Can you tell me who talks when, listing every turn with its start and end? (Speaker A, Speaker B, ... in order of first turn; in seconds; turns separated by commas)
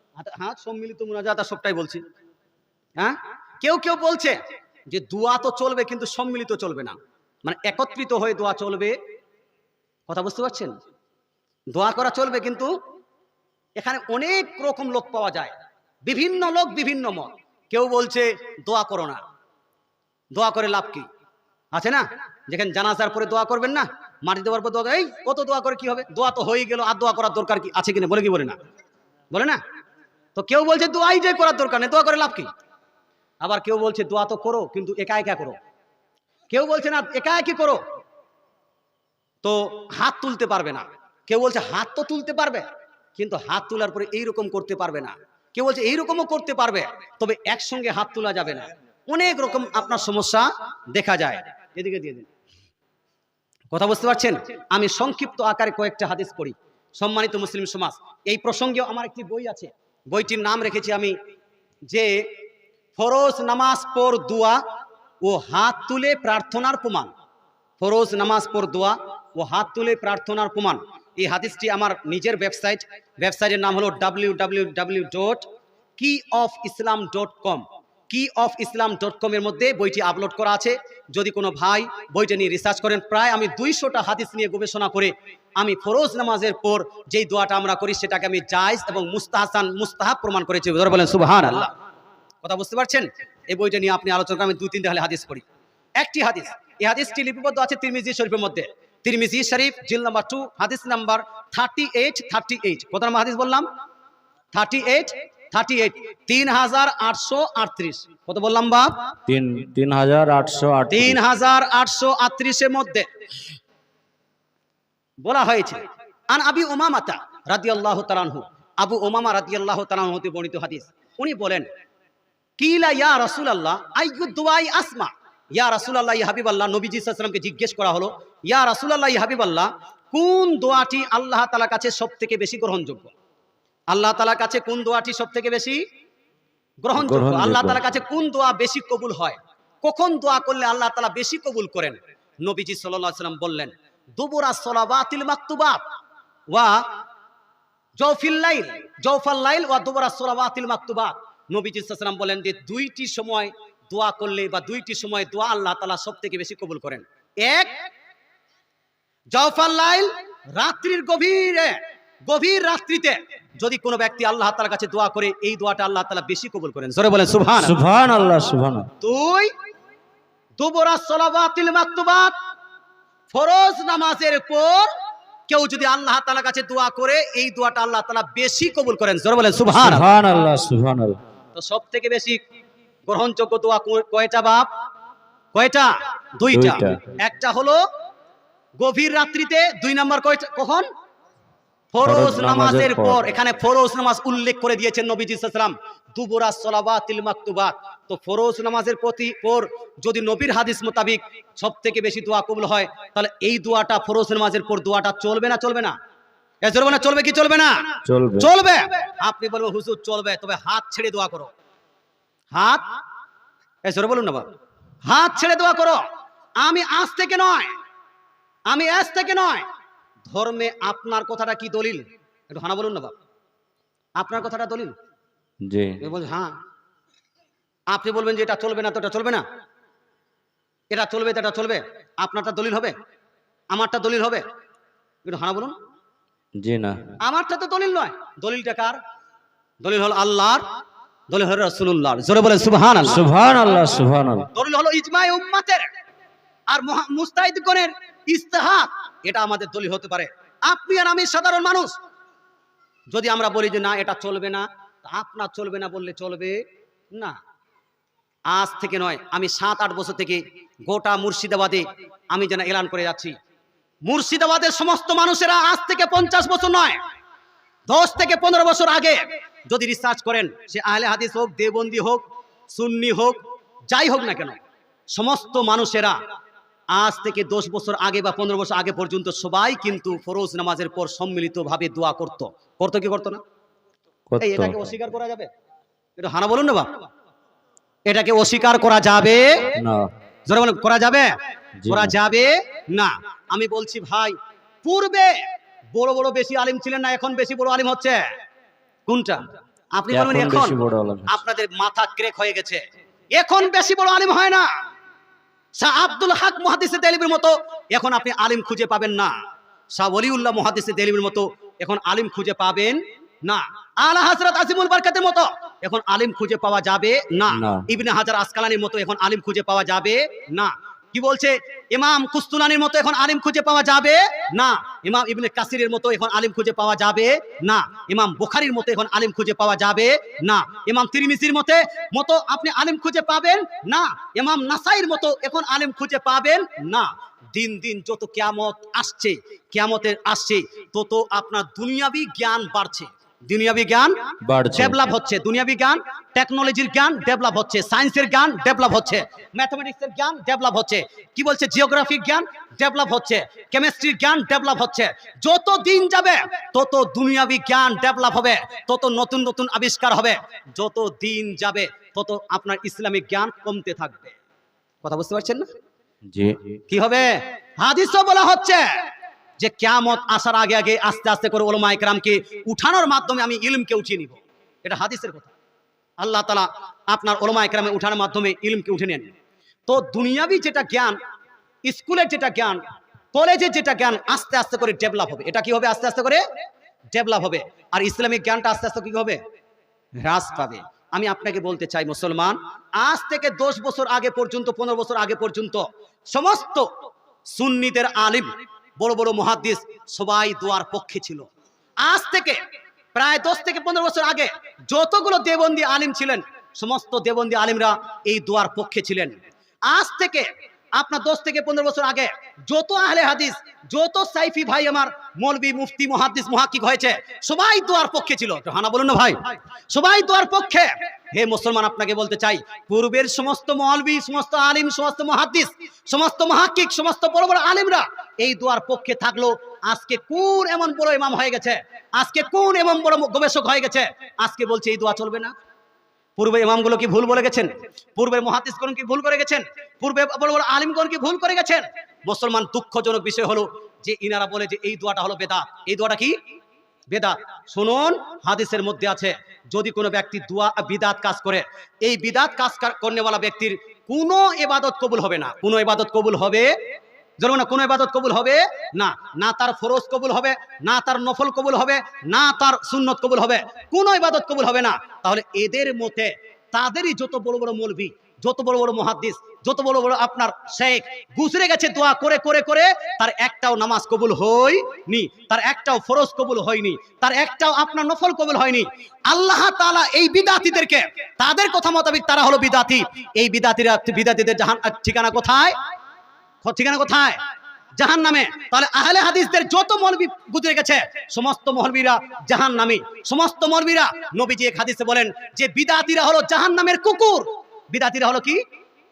Speaker A: 0.2-2.0, Speaker A: 3.0-4.4, Speaker A: 4.9-9.0, Speaker A: 10.1-10.8, Speaker A: 11.7-12.7, Speaker A: 13.8-15.5, Speaker A: 16.0-19.2, Speaker A: 20.3-21.1, Speaker A: 21.7-28.6, Speaker A: 29.3-29.6, Speaker A: 30.4-32.5, Speaker A: 33.4-35.6, Speaker A: 36.5-37.8, Speaker A: 39.4-42.6, Speaker A: 43.2-52.3, Speaker A: 53.7-61.1, Speaker A: 61.9-62.3, Speaker A: 63.0-64.6, Speaker A: 65.2-67.1, Speaker A: 67.8-75.5, Speaker A: 76.0-91.7, Speaker A: 92.4-95.4, Speaker A: 96.0-103.7, Speaker A: 104.5-109.1, Speaker B: 109.3-111.2, Speaker A: 110.9-113.1, Speaker A: 115.2-115.8, Speaker A: 116.3-121.7, Speaker A: 122.6-133.1, Speaker A: 133.9-135.8, Speaker A: 136.8-145.8, Speaker B: 137.0-137.8, Speaker A: 146.5-146.8, Speaker A: 148.0-157.7, Speaker A: 159.3-167.8, Speaker B: 167.6-168.9, Speaker A: 169.0-169.5, Speaker A: 170.6-172.3, Speaker A: 173.3-174.9, Speaker A: 175.5-180.1, Speaker B: 179.7-181.2, Speaker A: 181.6-182.4, Speaker A: 183.1-184.7, Speaker A: 185.5-187.8, Speaker B: 186.5-187.0, Speaker A: 188.8-190.9, Speaker A: 191.9-205.9, Speaker B: 192.0-193.3, Speaker A: 206.6-211.5, Speaker B: 208.1-208.5, Speaker A: 212.5-212.8, Speaker A: 213.8-214.5, Speaker A: 215.1-216.0, Speaker A: 216.6-217.7, Speaker A: 218.7-219.7, Speaker A: 220.3-223.1, Speaker A: 224.2-224.9, Speaker B: 225.7-226.0, Speaker A: 226.0-226.5, Speaker A: 227.9-229.4, Speaker A: 230.9-232.9, Speaker A: 233.7-234.4, Speaker A: 235.2-235.8, Speaker B: 236.6-237.0, Speaker A: 237.2-239.0, Speaker A: 239.8-240.6, Speaker A: 241.3-243.3, Speaker B: 243.1-244.5, Speaker A: 244.5-245.9, Speaker A: 246.7-251.9, Speaker A: 253.1-256.6, Speaker A: 257.1-257.4, Speaker A: 258.5-263.4, Speaker A: 264.1-267.0, Speaker A: 267.9-273.4, Speaker A: 273.9-274.6, Speaker A: 275.1-276.2, Speaker A: 276.9-283.4, Speaker B: 284.3-284.8, Speaker A: 284.4-285.5, Speaker A: 286.2-287.0, Speaker A: 288.1-289.8, Speaker B: 289.8-290.1, Speaker A: 290.5-291.3, Speaker B: 291.8-292.1, Speaker A: 291.9-295.4, Speaker A: 295.9-298.2, Speaker A: 299.1-299.4, Speaker A: 299.9-302.8, Speaker B: 300.1-301.3, Speaker A: 303.4-304.7, Speaker A: 305.8-309.3, Speaker A: 309.9-344.2, Speaker B: 317.5-317.9, Speaker B: 344.4-345.0, Speaker A: 344.7-364.4, Speaker A: 365.0-365.7, Speaker B: 366.3-366.8, Speaker A: 366.9-368.9, Speaker A: 369.6-375.6, Speaker A: 376.2-379.3, Speaker A: 379.9-381.2, Speaker A: 381.9-386.4, Speaker A: 387.1-389.4, Speaker A: 390.2-396.9, Speaker A: 397.5-401.5, Speaker A: 402.0-402.6, Speaker A: 403.1-409.4, Speaker A: 409.9-435.5, Speaker A: 436.4-446.4, Speaker A: 447.1-456.8, Speaker A: 457.4-485.8, Speaker A: 486.6-487.4, Speaker A: 488.0-498.6